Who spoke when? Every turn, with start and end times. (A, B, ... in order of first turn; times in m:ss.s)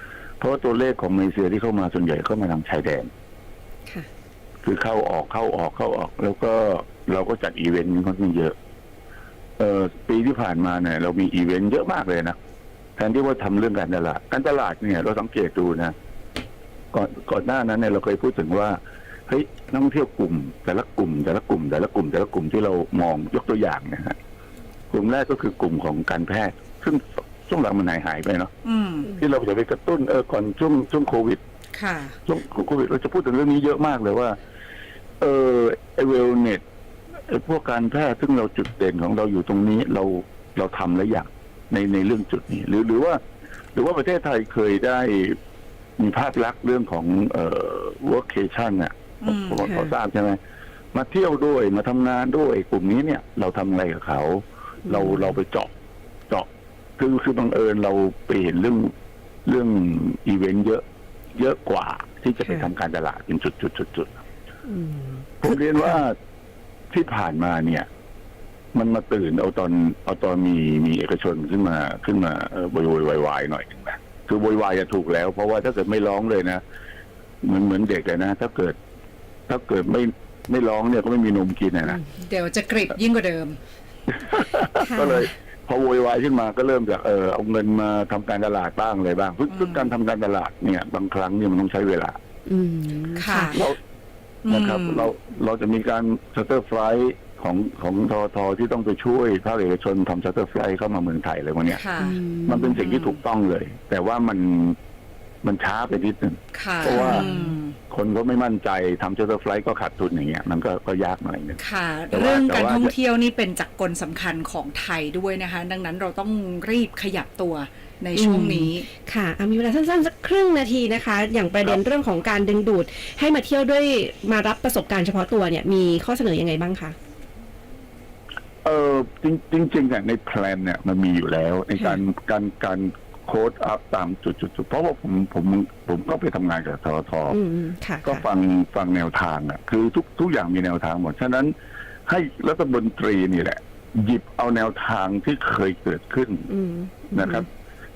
0:00.4-0:03.1 A
0:04.6-0:08.6 A
0:09.6-0:12.4 A
0:13.0-0:15.9 A
0:16.9-0:24.2 A
0:24.9-0:28.5 A
0:28.6-0:29.1 B
0:29.1-0:31.4 A
0:31.8-0:32.2 B
0:32.3-0:34.4 A
0:35.2-0:36.6 A
0:37.3-0:43.2 A
0:43.8-0:45.4 A
0:46.0-0:50.4 A
0:49.2-0:49.7 B
0:49.6-0:50.0 C
0:50.9-0:55.7 A
0:54.9-0:55.4 C
0:56.3-0:58.9 A
0:59.5-1:00.8 A
1:01.4-1:04.2 A
1:02.4-1:02.7 C
1:04.7-1:06.0 C
1:05.4-1:06.2 A
1:06.9-1:07.9 A
1:08.7-1:16.6 A
1:17.4-1:18.8 A
1:19.5-1:22.0 A
1:22.2-1:23.6 B
1:24.1-1:32.2 A
1:24.8-1:25.2 B
1:29.5-1:29.9 B
1:32.5-1:33.6 C
1:33.2-1:33.6 B
1:33.5-1:33.8 A
1:34.4-1:35.1 B
1:34.5-1:41.8 A
1:41.7-1:42.2 B
1:42.0-1:42.8 C
1:42.5-1:44.8 A
1:42.8-1:43.2 B
1:45.4-1:47.3 A
1:46.5-1:47.8 B
1:46.9-1:47.6 C
1:47.9-1:51.6 A
1:51.6-1:58.9 B
1:52.1-1:52.9 A
1:58.1-2:07.0 C
2:08.6-2:17.4 A
2:17.3-2:18.2 C
2:18.0-2:21.5 A
2:22.1-2:26.5 A
2:26.5-2:27.5 C
2:27.1-2:27.5 A